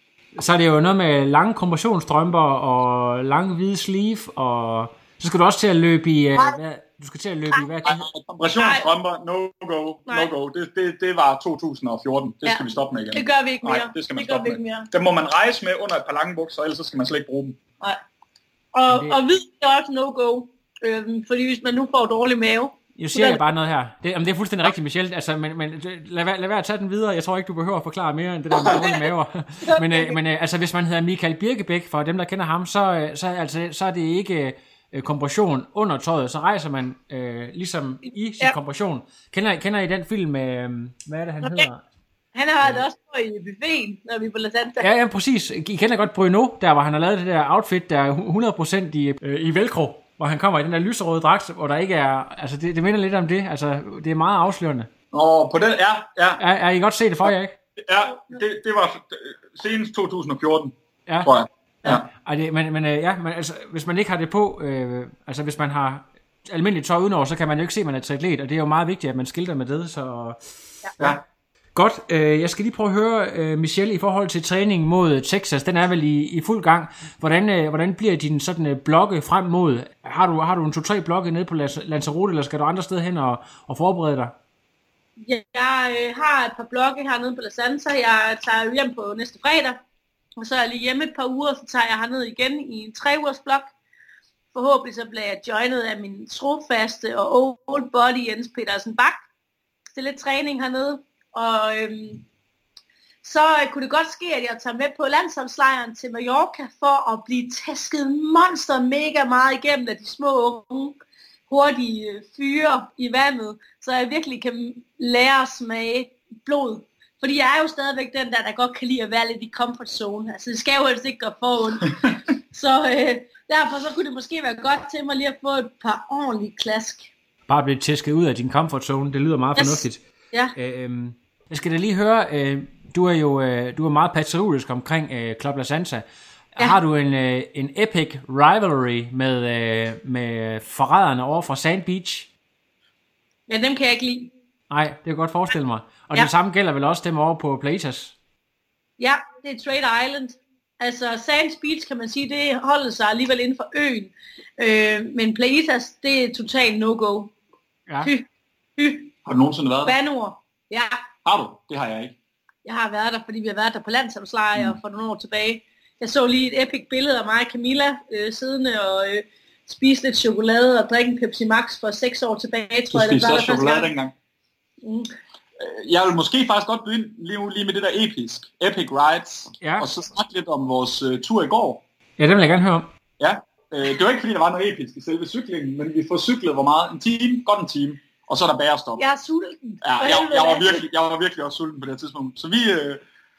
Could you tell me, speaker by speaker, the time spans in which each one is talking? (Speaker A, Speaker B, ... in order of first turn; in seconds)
Speaker A: 0.4-8.1, 18.9-19.2, 22.9-41.8, 44.8-54.9, 56.4-57.5, 61.9-70.4, 71.7-84.3, 127.5-130.0, 130.5-136.0, 136.6-142.3, 144.7-148.1, 157.9-158.1, 179.6-179.9, 182.2-182.9
Speaker B: 7.8-17.6, 55.1-56.4, 57.2-62.0, 159.2-159.9, 161.2-162.1, 172.9-174.1, 175.6-181.8, 183.2-189.0, 189.8-193.0
Speaker C: 8.5-8.9, 12.4-14.9, 18.7-23.4, 28.6-29.0, 29.6-30.2, 41.4-41.7, 42.4-44.9, 58.1-58.4, 85.2-89.8, 90.4-93.7, 94.5-99.2, 99.9-102.2, 103.2-111.0, 111.5-121.9, 122.5-127.1, 129.6-130.5, 143.5-144.3, 149.0-157.3, 158.8-159.1, 159.9-161.0, 162.6-173.9, 174.8-175.1, 189.0-190.8